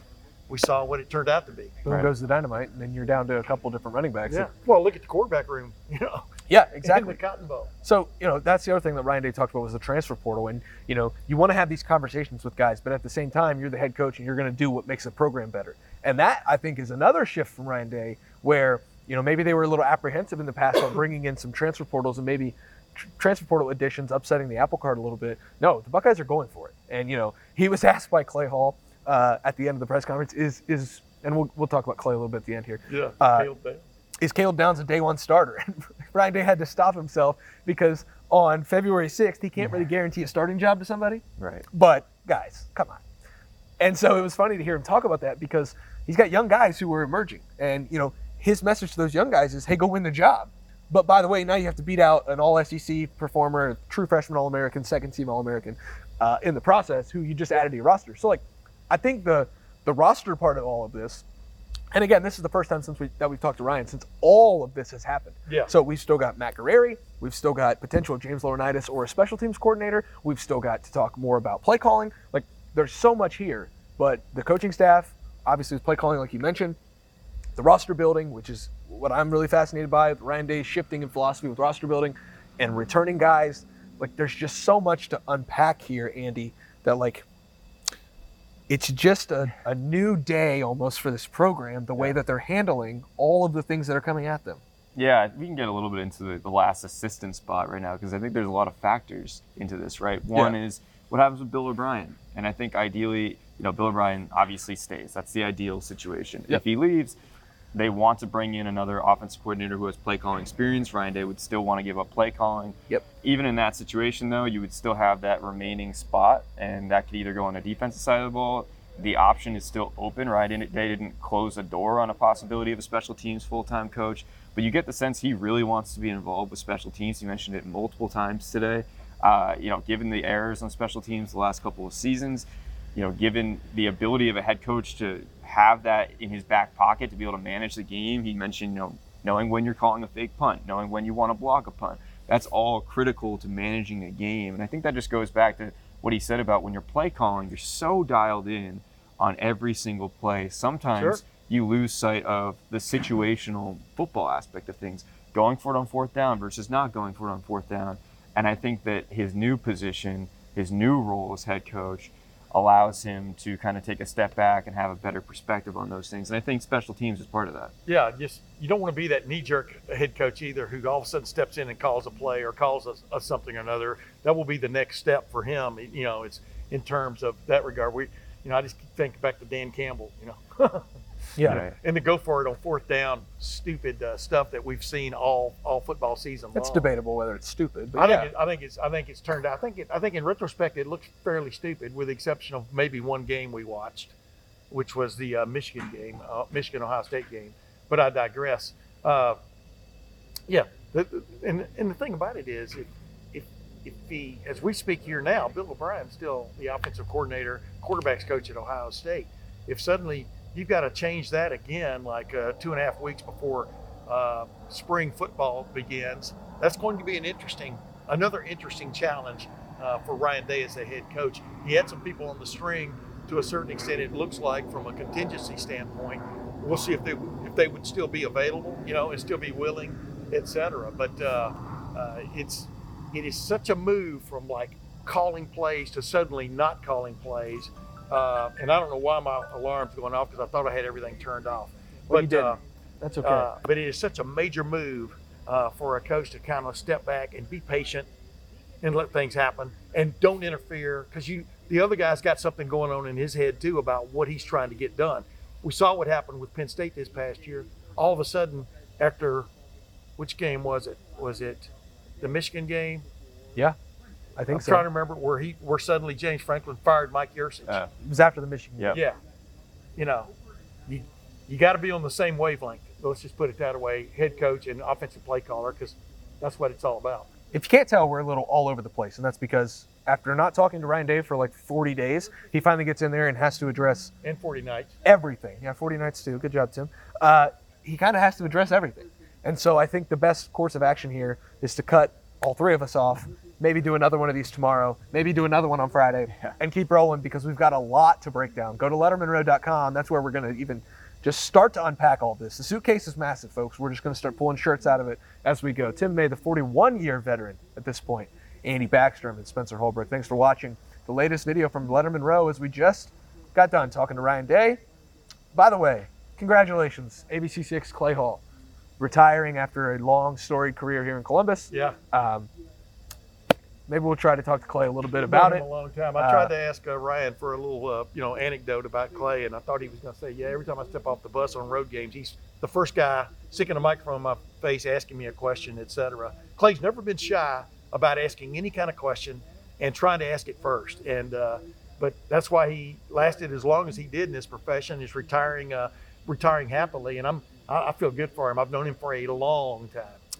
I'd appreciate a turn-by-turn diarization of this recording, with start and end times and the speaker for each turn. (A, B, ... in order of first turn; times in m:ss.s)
0:00.5-0:01.8 A
0:01.8-0:04.5 B
0:04.3-0:06.3 A
0:06.5-0:07.2 B
0:06.8-0:07.7 A
0:07.8-0:33.5 B
0:32.9-0:33.8 A
0:34.2-0:43.0 B
0:41.4-0:41.6 C
0:43.8-1:01.2 B
1:01.9-1:16.8 B
1:17.6-1:27.2 B
1:28.7-1:34.6 B
1:35.0-1:47.2 C
1:47.7-2:47.7 C
2:30.9-2:31.2 A
2:47.8-3:00.9 A
3:01.4-3:01.6 B
3:01.4-3:06.9 A
3:01.4-3:01.7 C
3:06.5-3:08.3 B
3:07.9-3:14.1 A
3:14.7-3:19.4 A
3:20.5-4:02.6 A
4:02.1-4:03.5 B
4:03.2-4:08.1 A
4:08.8-4:19.5 A
4:20.2-4:23.0 A
4:24.4-4:24.8 B
4:24.5-4:27.8 A
4:28.0-4:29.0 B
4:28.9-4:29.2 A
4:30.0-4:30.3 A
4:30.9-4:37.3 A
4:37.5-4:44.1 B
4:44.2-4:44.9 A
4:45.0-5:14.8 B
5:15.5-5:18.4 B
5:19.0-5:22.5 B
5:21.7-5:22.0 A
5:23.9-5:25.6 B
5:25.3-5:50.2 A
5:26.2-5:26.5 B